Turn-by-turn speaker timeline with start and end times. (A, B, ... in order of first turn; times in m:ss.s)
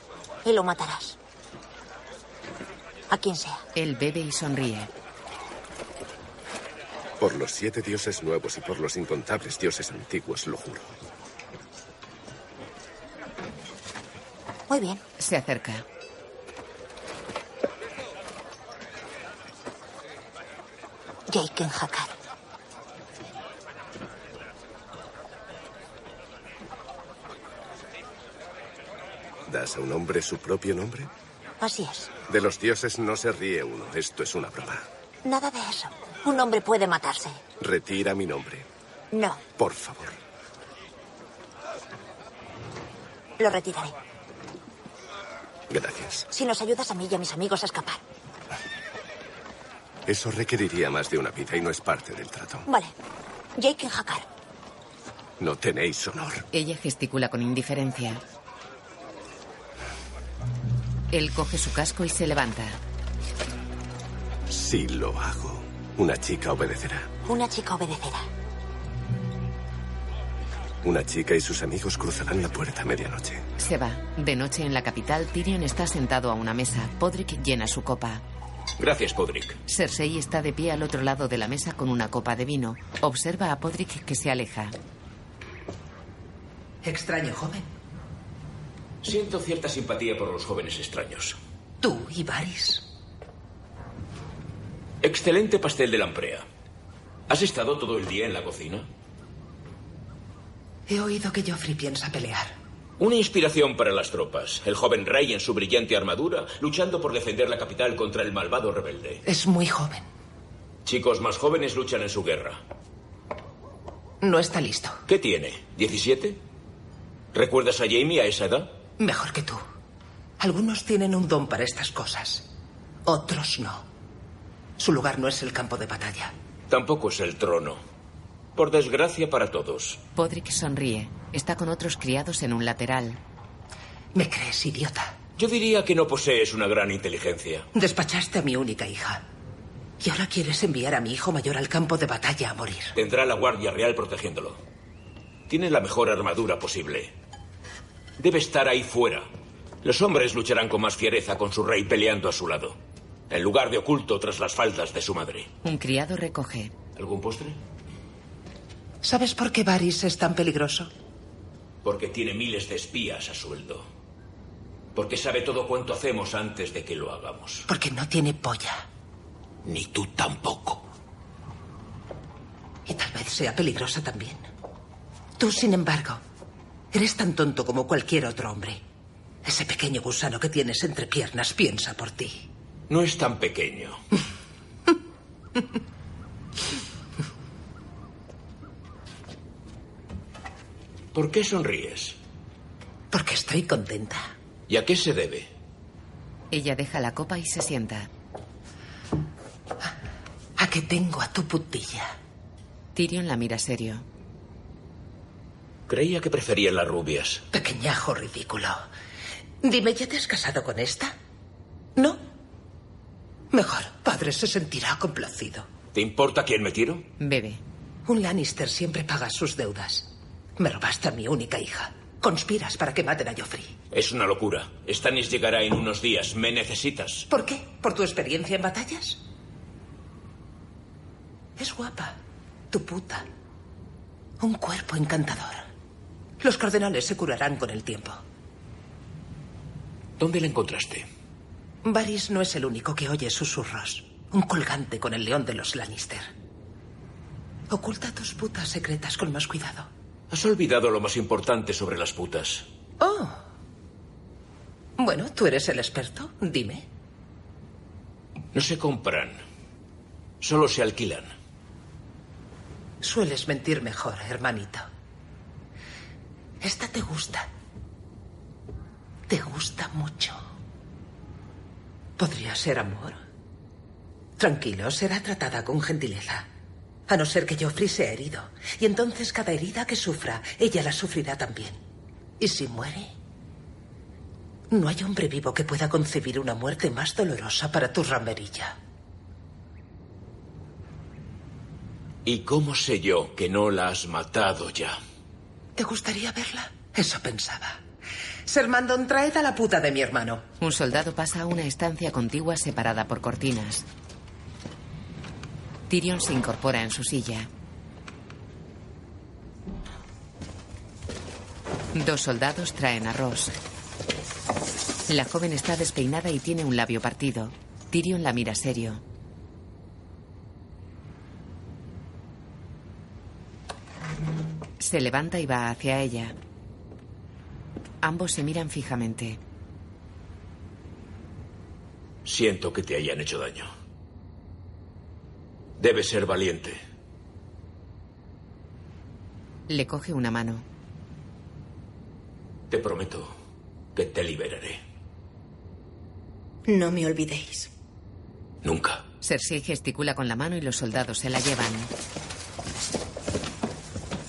0:00.4-0:01.2 A
0:03.1-0:03.6 A
0:03.7-0:04.9 B
0:07.2-0:10.9 C
0:14.7-0:15.0 A
0:15.2-0:15.8 B
0:21.3-0:22.1 A
0:29.5-0:31.1 C
0:31.6-0:32.1 A
0:32.3-0:34.8 C
0:35.2-0:37.4 A
0:37.6-0:38.6 C
0:39.1-0:39.5 A
0:39.6-0:40.2 C
0:43.4-0:43.9 A
0:45.7-0:46.3 C
0:46.3-0:48.0 A
0:50.1-0:52.7 C
0:52.7-0:52.9 A
0:53.6-0:54.2 A
0:55.4-0:56.4 C
0:56.5-0:58.2 B
1:01.1-1:02.8 B
1:04.5-1:07.1 C
1:07.2-1:08.3 A
1:10.8-1:13.4 C
1:13.6-1:18.2 B
1:18.8-1:19.6 D
1:19.7-1:24.8 B
1:26.8-1:27.7 E
1:29.0-1:31.4 D
1:31.8-1:32.8 E
1:35.0-1:36.4 D
1:37.3-1:38.9 D
1:40.9-1:42.5 E
1:43.0-1:49.2 D
1:49.2-1:50.0 E
1:50.8-1:52.6 D
1:54.2-1:55.0 E
1:55.1-1:56.4 D
1:57.3-1:58.8 D
1:59.0-1:59.6 E
2:00.4-2:02.5 E
2:03.0-2:03.8 E
2:04.8-2:06.3 E
2:06.7-2:07.8 D
2:08.6-2:10.0 D
2:10.2-2:13.2 B
2:14.1-2:15.2 E
2:15.4-2:17.7 D
2:17.7-2:19.2 E
2:20.0-2:22.9 E
2:23.0-2:24.6 D
2:25.5-2:27.1 D
2:28.2-2:29.3 D
2:29.8-2:32.8 D
2:33.3-2:35.5 D
2:35.6-2:36.7 B
2:37.0-2:37.6 D
2:39.0-2:40.9 E
2:41.8-2:43.9 D
2:44.9-2:47.6 D
2:47.6-2:48.8 E
2:49.6-2:50.8 D
2:52.8-2:54.4 E
2:55.4-2:56.2 E
2:56.9-2:58.8 E
2:59.4-3:02.4 E
3:02.9-3:04.0 D
3:11.1-3:12.2 D
3:13.1-3:14.3 E
3:14.7-3:15.5 D
3:16.5-3:18.1 B
3:20.6-3:22.1 E
3:22.9-3:24.0 B
3:25.9-3:27.4 D
3:27.5-3:28.8 E
3:29.6-3:31.1 E
3:33.5-3:35.7 E
3:35.9-3:37.0 D
3:37.2-3:37.6 B
3:38.0-3:43.7 E
3:43.9-3:47.2 D
3:47.3-3:49.2 E
3:51.6-3:52.2 E
3:52.7-3:53.2 E
3:54.4-3:55.7 E
3:56.4-3:58.2 E
4:00.2-4:01.1 D
4:01.8-4:06.3 E
4:07.7-4:09.9 E
4:10.3-4:12.6 D
4:13.0-4:13.4 E
4:15.0-4:16.8 E
4:18.5-4:19.4 D
4:20.4-4:21.3 D
4:23.0-4:24.9 E
4:26.6-4:27.5 E
4:29.3-4:30.4 E
4:32.2-4:33.2 E
4:34.4-4:36.5 E
4:37.1-4:41.8 E
4:42.4-4:43.1 E
4:44.7-4:48.8 E
4:52.2-4:55.0 D
4:55.8-4:57.8 E
4:58.4-5:00.4 E
5:00.6-5:03.8 B
5:05.9-5:07.5 B
5:11.9-5:13.6 B
5:15.1-5:19.0 B
5:24.8-5:26.4 B
5:28.0-5:29.4 B
5:32.2-5:33.7 D
5:35.8-5:36.8 D
5:39.7-5:40.6 B
5:42.7-5:43.3 D
5:43.9-5:44.8 D
5:48.6-5:49.0 D
5:49.2-5:51.9 B